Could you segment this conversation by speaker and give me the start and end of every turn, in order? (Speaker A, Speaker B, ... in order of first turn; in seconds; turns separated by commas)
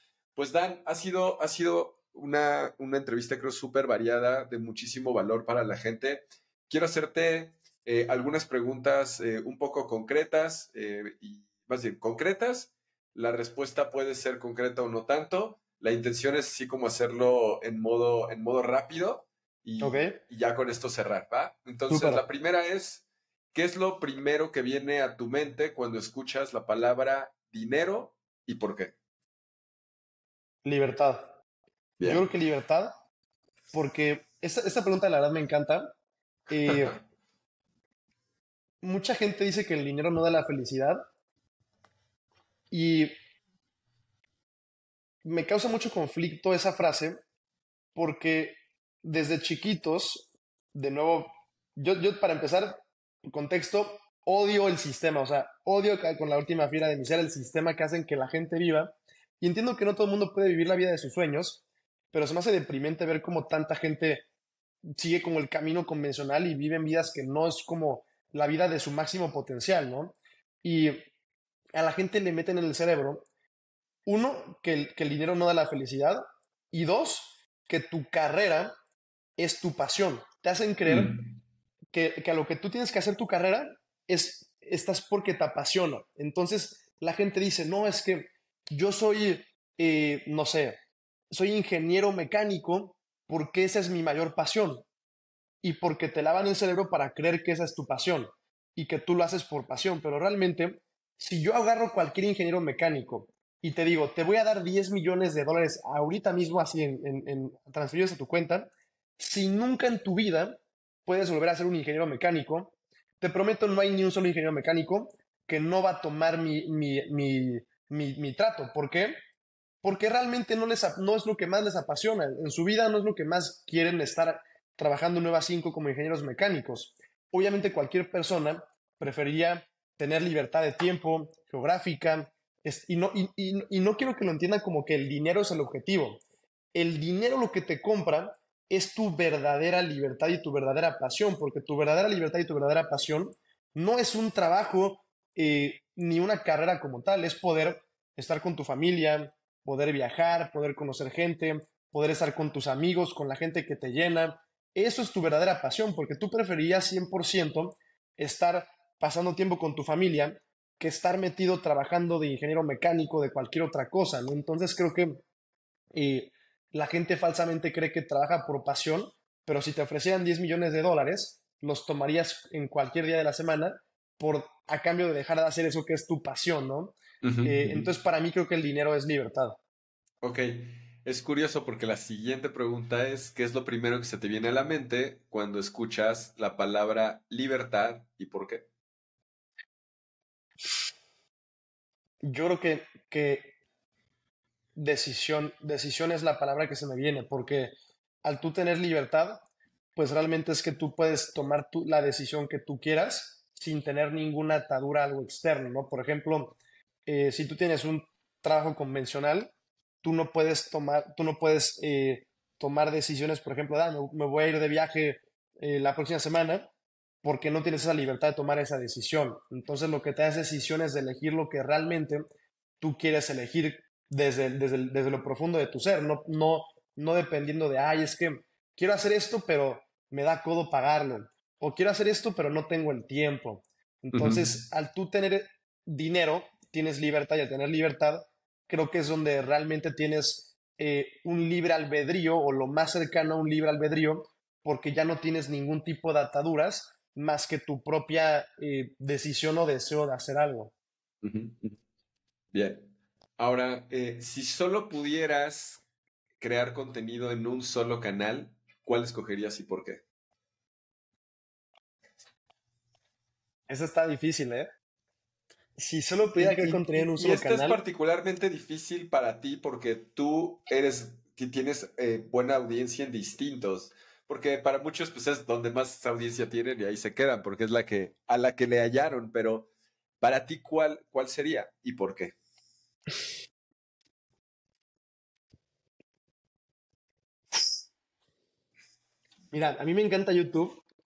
Speaker A: 0.4-28.9, Speaker B: 19.8-20.2, Speaker B: 21.9-22.2, Speaker B: 30.6-31.4, Speaker A: 32.0-32.2, Speaker B: 32.0-32.9, Speaker B: 33.7-35.9, Speaker B: 36.5-37.0, Speaker B: 38.8-41.0, Speaker B: 42.7-43.1, Speaker B: 45.2-47.2, Speaker B: 48.0-64.2, Speaker B: 65.0-71.0, Speaker B: 71.7-73.2, Speaker B: 74.1-78.7, Speaker B: 79.4-81.2, Speaker A: 80.9-81.2, Speaker B: 81.9-90.8, Speaker B: 91.3-94.9, Speaker B: 95.6-119.1, Speaker B: 119.8-136.2, Speaker B: 136.7-165.2, Speaker B: 165.9-179.6, Speaker A: 177.2-177.9, Speaker A: 180.2-188.6, Speaker B: 192.2-193.5, Speaker B: 194.8-197.7, Speaker B: 198.2-199.4, Speaker B: 199.9-206.6, Speaker B: 207.1-209.5, Speaker B: 210.0-216.7, Speaker B: 217.2-222.2, Speaker B: 222.8-250.7, Speaker A: 234.1-234.5, Speaker A: 251.2-251.8, Speaker A: 252.5-255.8, Speaker A: 256.4-260.0, Speaker B: 263.7-264.7, Speaker B: 265.8-267.8, Speaker A: 266.4-279.7, Speaker A: 280.2-282.4, Speaker B: 289.5-290.8